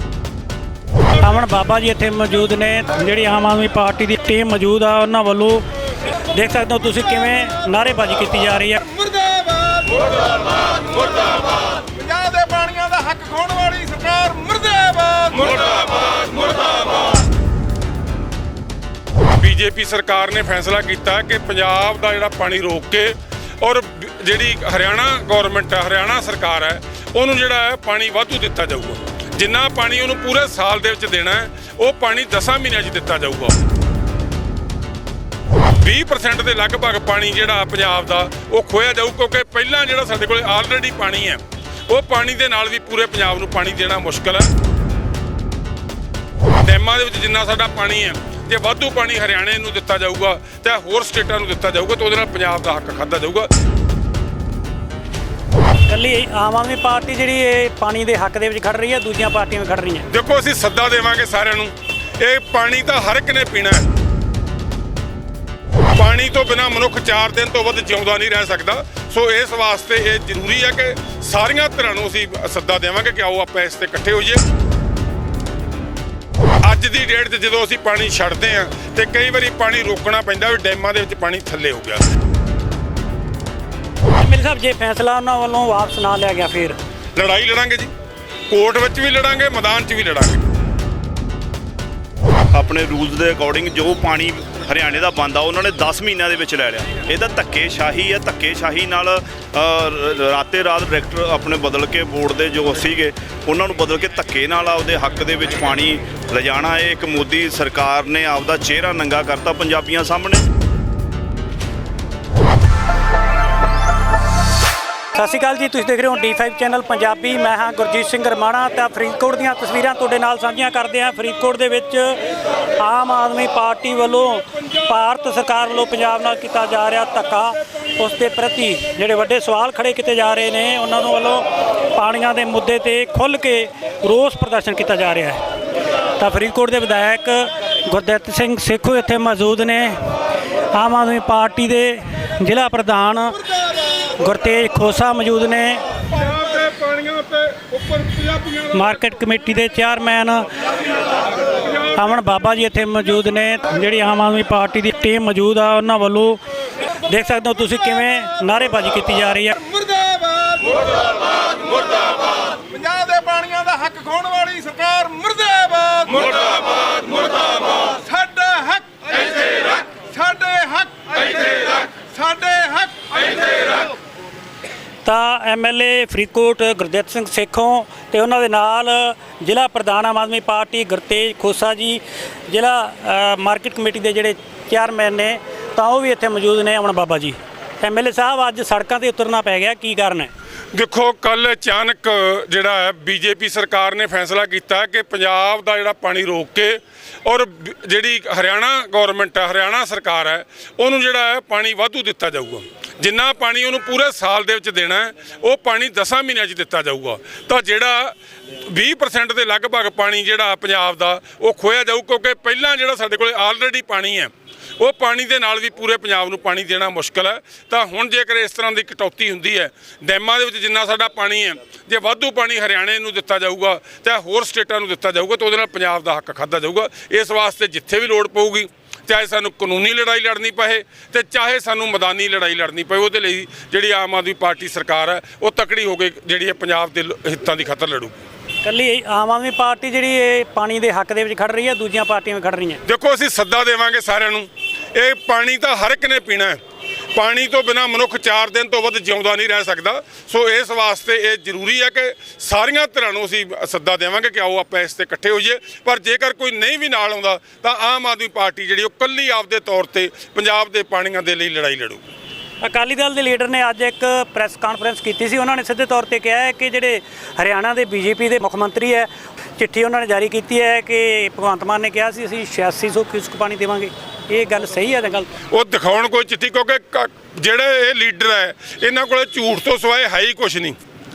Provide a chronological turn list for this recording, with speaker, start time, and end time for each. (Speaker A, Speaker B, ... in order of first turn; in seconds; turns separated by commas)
Speaker A: 1.2-5.6, Speaker A: 6.3-8.8, Speaker B: 8.9-10.1, Speaker B: 11.9-16.0, Speaker C: 19.4-33.6, Speaker C: 35.8-44.5, Speaker C: 46.6-53.5, Speaker A: 55.9-60.0, Speaker C: 60.1-63.9, Speaker C: 66.0-74.4, Speaker C: 76.6-82.0, Speaker A: 84.2-86.8, Speaker C: 87.2-87.9, Speaker C: 88.5-90.4, Speaker D: 92.5-110.5, Speaker A: 115.2-122.2, Speaker A: 122.8-135.4, Speaker A: 136.2-139.9, Speaker A: 140.7-143.4, Speaker A: 144.2-145.8, Speaker A: 148.7-150.4, Speaker A: 151.8-156.4, Speaker A: 157.1-159.7, Speaker B: 159.8-160.7, Speaker B: 162.7-173.2, Speaker A: 175.1-190.3, Speaker C: 190.7-208.2, Speaker C: 208.7-238.2, Speaker A: 238.6-242.8, Speaker C: 242.9-246.6, Speaker C: 247.2-262.0, Speaker A: 262.6-275.3, Speaker C: 275.5-280.8